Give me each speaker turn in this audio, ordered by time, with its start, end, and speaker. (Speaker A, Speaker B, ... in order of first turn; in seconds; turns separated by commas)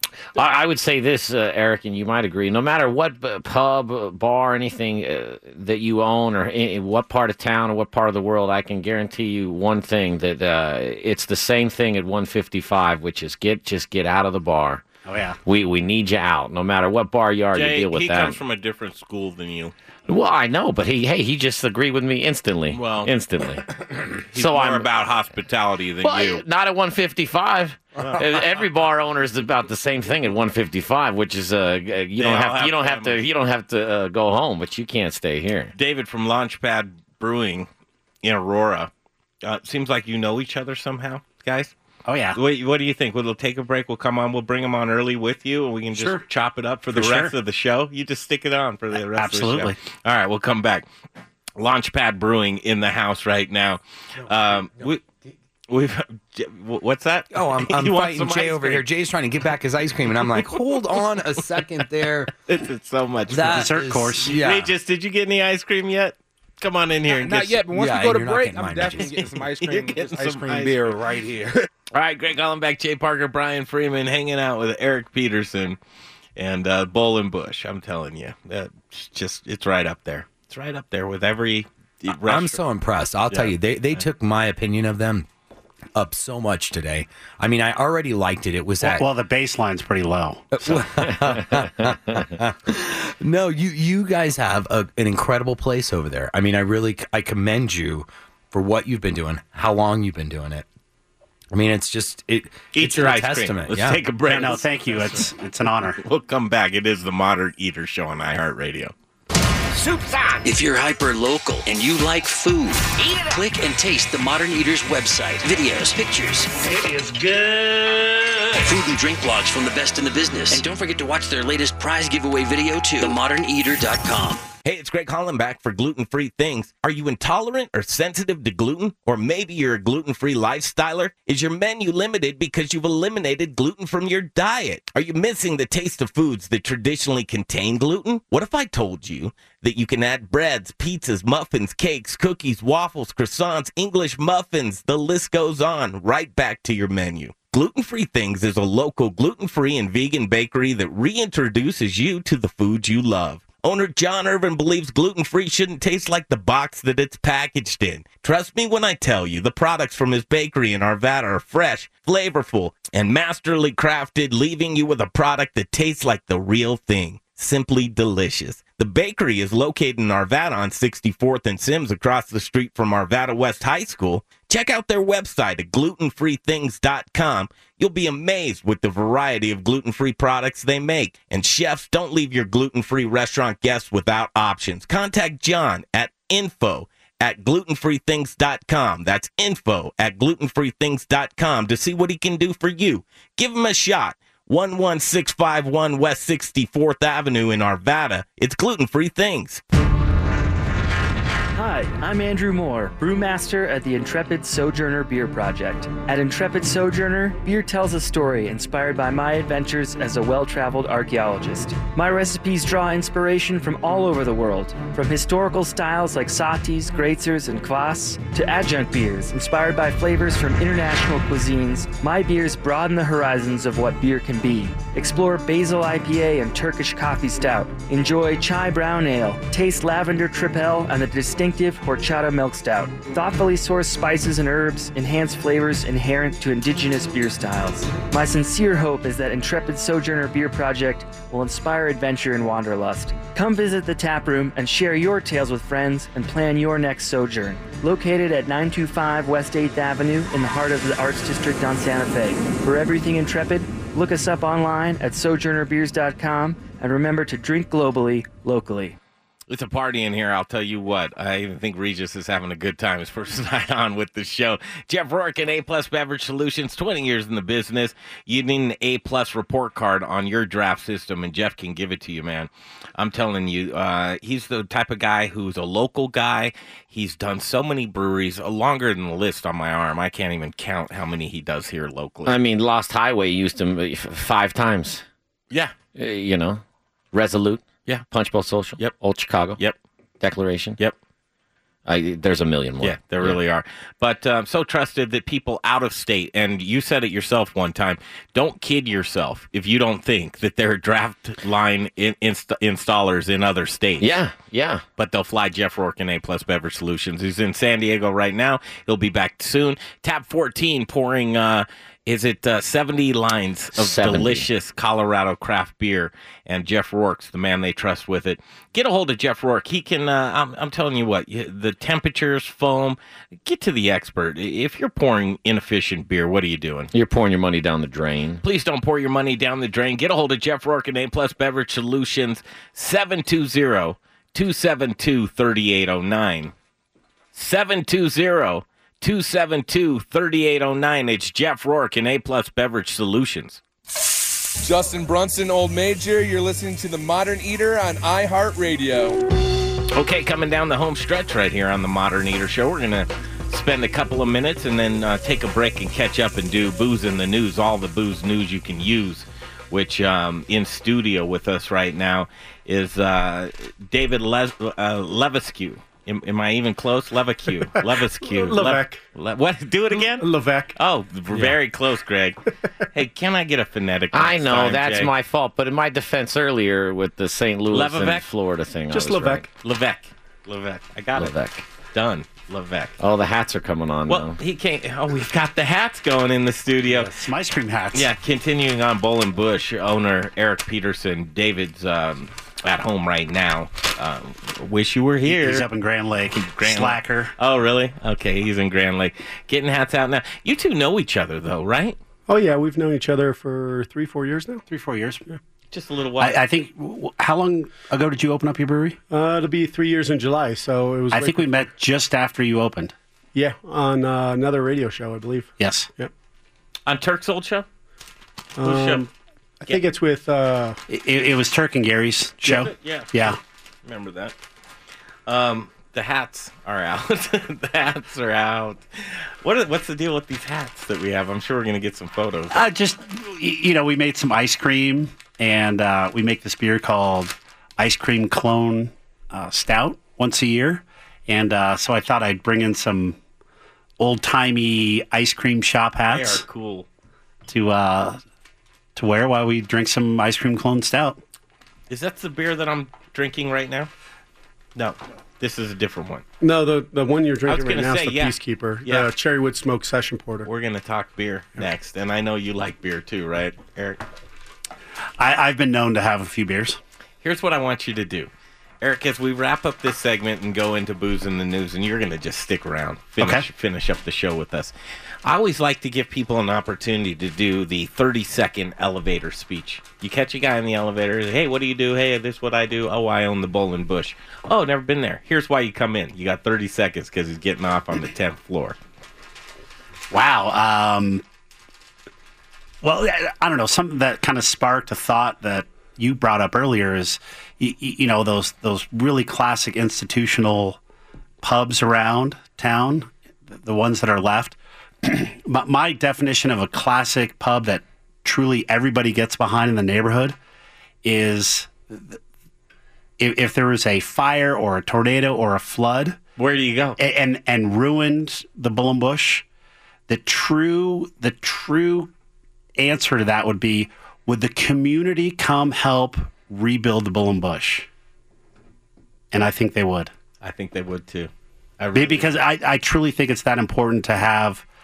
Speaker A: 0.3-14.8, Speaker B: 15.1-15.4, Speaker A: 15.4-18.4, Speaker C: 17.5-19.7, Speaker A: 20.1-23.7, Speaker C: 22.7-23.1, Speaker C: 24.3-26.4, Speaker A: 24.3-24.9, Speaker A: 26.0-35.7, Speaker C: 28.0-28.6, Speaker C: 32.2-33.2, Speaker C: 35.7-37.7, Speaker C: 38.2-38.9, Speaker C: 39.4-41.7, Speaker B: 42.1-42.4, Speaker C: 42.3-50.9, Speaker B: 46.0-46.2, Speaker B: 46.9-47.3, Speaker B: 49.0-49.8, Speaker C: 51.6-55.0, Speaker C: 55.7-58.8, Speaker D: 57.3-62.3, Speaker C: 60.2-61.0, Speaker C: 62.5-63.7, Speaker D: 63.3-64.7, Speaker B: 63.4-64.3, Speaker C: 64.3-67.7, Speaker E: 67.1-71.5, Speaker D: 67.7-69.4, Speaker C: 69.6-71.0, Speaker C: 71.9-75.8, Speaker C: 76.4-82.6, Speaker D: 82.2-85.3, Speaker C: 83.3-84.0, Speaker D: 86.0-89.0, Speaker B: 88.8-90.6, Speaker D: 90.5-100.7, Speaker A: 91.1-91.9, Speaker D: 101.5-104.0, Speaker C: 102.7-105.3, Speaker B: 104.2-106.0, Speaker C: 106.0-108.9, Speaker F: 109.7-110.4, Speaker G: 110.5-116.5, Speaker F: 113.0-113.4, Speaker F: 116.6-118.5, Speaker G: 118.6-124.4, Speaker C: 124.6-199.6, Speaker H: 201.5-259.0, Speaker C: 259.5-282.4, Speaker A: 282.2-285.1, Speaker A: 285.9-289.6, Speaker A: 290.2-290.8, Speaker A: 291.9-293.4, Speaker C: 292.8-304.2, Speaker A: 304.0-304.9, Speaker C: 305.0-326.9, Speaker A: 313.7-314.5, Speaker A: 326.9-328.4, Speaker C: 328.4-336.5, Speaker C: 337.4-343.6, Speaker I: 344.7-349.1, Speaker C: 349.9-375.1, Speaker J: 367.8-369.0, Speaker J: 369.9-370.8, Speaker A: 374.1-379.5, Speaker C: 377.7-378.3, Speaker J: 378.9-379.4, Speaker C: 379.4-381.3, Speaker A: 381.1-381.7, Speaker C: 381.8-383.0, Speaker A: 383.0-384.4, Speaker C: 384.1-387.2, Speaker B: 387.1-388.1, Speaker C: 387.9-395.7, Speaker B: 395.2-397.3, Speaker C: 396.3-402.0, Speaker J: 402.3-404.6, Speaker B: 404.7-405.3, Speaker C: 405.7-406.4, Speaker B: 406.2-409.0, Speaker J: 409.1-411.6, Speaker B: 411.1-412.9, Speaker J: 413.4-416.1, Speaker B: 415.6-415.9, Speaker C: 416.9-417.7, Speaker J: 418.6-419.1, Speaker C: 418.6-419.1, Speaker J: 419.6-420.8, Speaker B: 420.9-423.4, Speaker C: 422.4-424.4, Speaker C: 425.3-432.6, Speaker B: 432.5-443.2, Speaker B: 444.0-446.4, Speaker C: 446.1-446.9, Speaker B: 447.5-448.2, Speaker B: 448.9-451.2, Speaker C: 451.9-453.9, Speaker C: 454.7-456.2, Speaker J: 456.4-460.5, Speaker C: 457.4-459.1, Speaker C: 460.4-464.0, Speaker B: 465.2-466.8, Speaker C: 467.2-474.7, Speaker B: 473.2-473.4, Speaker C: 475.2-488.8, Speaker B: 490.1-491.2, Speaker B: 492.8-500.8, Speaker B: 501.4-510.4, Speaker B: 511.0-512.2, Speaker B: 513.2-516.2, Speaker C: 516.4-517.0, Speaker B: 517.0-519.5, Speaker B: 520.1-522.1, Speaker B: 522.8-527.9, Speaker B: 529.3-530.1, Speaker C: 530.4-532.4, Speaker B: 531.9-534.6